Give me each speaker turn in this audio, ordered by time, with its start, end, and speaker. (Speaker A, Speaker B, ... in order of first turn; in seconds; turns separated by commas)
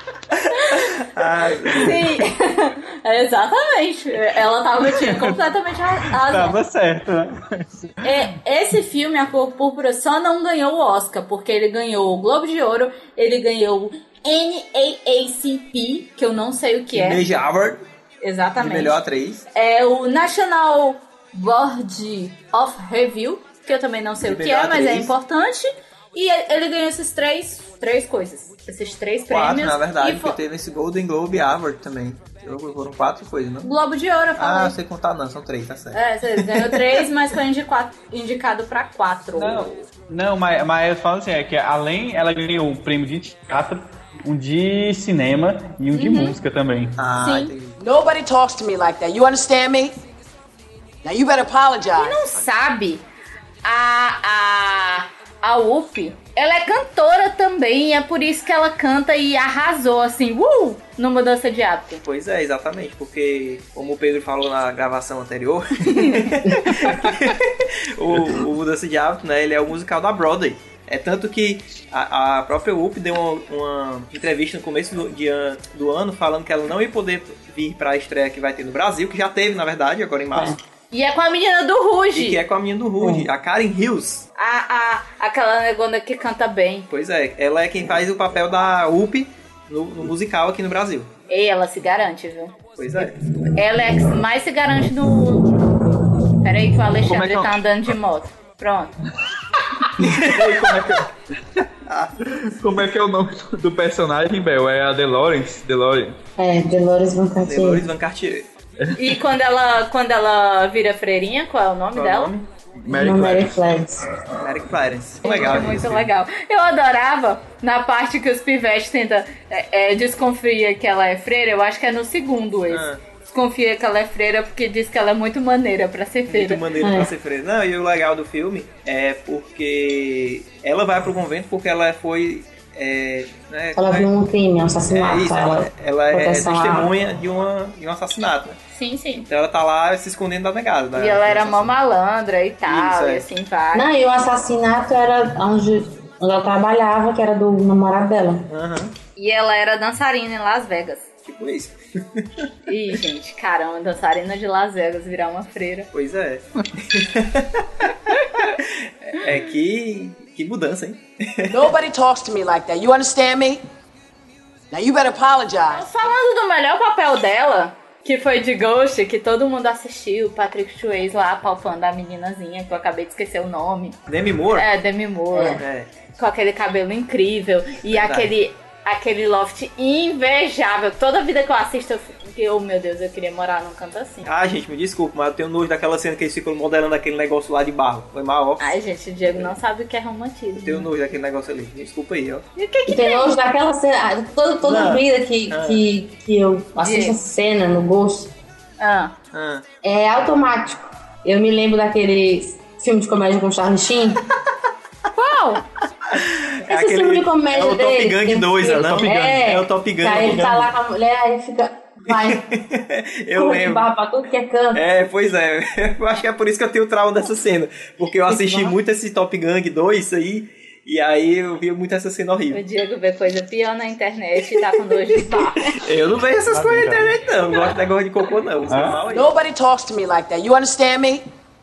Speaker A: 0.3-2.1, Speaker B: 0.5-0.9, Speaker B: 1.7-6.6, Speaker C: 5.0-5.3, Speaker C: 6.1-8.1, Speaker B: 8.0-17.2, Speaker A: 16.9-17.8, Speaker B: 18.2-19.0, Speaker A: 18.6-19.4, Speaker B: 19.5-30.4, Speaker A: 24.2-25.1, Speaker A: 29.3-33.7, Speaker B: 33.6-34.8, Speaker A: 34.4-37.0, Speaker B: 35.9-39.7, Speaker C: 39.4-47.0, Speaker B: 45.9-46.4, Speaker A: 47.0-47.8, Speaker B: 47.2-47.5, Speaker D: 47.8-49.9, Speaker D: 51.0-52.3, Speaker B: 52.0-53.0, Speaker B: 53.6-62.0, Speaker A: 62.0-80.6, Speaker B: 65.9-66.3, Speaker B: 80.9-82.4, Speaker A: 82.1-84.2, Speaker E: 83.0-83.3, Speaker B: 84.4-86.9, Speaker A: 86.9-91.1, Speaker B: 91.3-95.6, Speaker A: 92.8-93.2, Speaker B: 96.4-98.9, Speaker C: 97.0-97.5, Speaker C: 100.0-101.1, Speaker A: 100.0-101.0, Speaker A: 101.8-102.2, Speaker C: 102.4-106.2, Speaker E: 106.4-107.9, Speaker A: 107.4-108.5, Speaker C: 108.8-109.1, Speaker B: 109.0-112.3, Speaker A: 111.9-112.5, Speaker C: 112.8-113.8, Speaker E: 112.9-114.0, Speaker A: 114.3-116.1, Speaker B: 115.2-126.7, Speaker A: 122.7-123.0, Speaker A: 126.3-134.1, Speaker E: 126.8-127.1, Speaker E: 133.7-136.9, Speaker A: 134.9-138.6, Speaker B: 138.7-139.3, Speaker A: 139.2-141.7, Speaker B: 140.9-143.9, Speaker A: 142.7-143.2, Speaker E: 143.7-148.5, Speaker A: 148.5-148.9, Speaker B: 149.2-151.1, Speaker A: 151.2-152.5, Speaker B: 152.7-155.9, Speaker A: 155.9-157.9, Speaker B: 158.1-158.5, Speaker A: 158.5-161.7, Speaker D: 161.5-163.6, Speaker D: 164.7-165.9, Speaker B: 165.7-174.0, Speaker A: 174.1-174.7, Speaker B: 174.5-175.6, Speaker E: 175.3-175.6, Speaker A: 175.6-175.9, Speaker B: 176.2-184.3, Speaker A: 177.9-178.3, Speaker A: 184.2-188.8, Speaker B: 188.6-190.9, Speaker A: 189.3-189.5, Speaker A: 190.6-192.4, Speaker B: 192.6-193.4, Speaker E: 192.9-198.3, Speaker A: 194.6-195.8, Speaker B: 196.8-197.2, Speaker B: 198.8-199.1, Speaker A: 199.3-199.6, Speaker E: 199.8-204.2, Speaker B: 205.1-205.6, Speaker A: 206.1-210.7, Speaker E: 206.7-212.5, Speaker C: 208.7-209.4, Speaker A: 212.1-213.9, Speaker E: 213.3-214.8, Speaker A: 214.7-222.6, Speaker E: 218.3-218.7, Speaker B: 222.5-225.8, Speaker A: 225.3-229.3, Speaker C: 226.5-227.1, Speaker C: 228.7-229.0, Speaker D: 229.1-231.2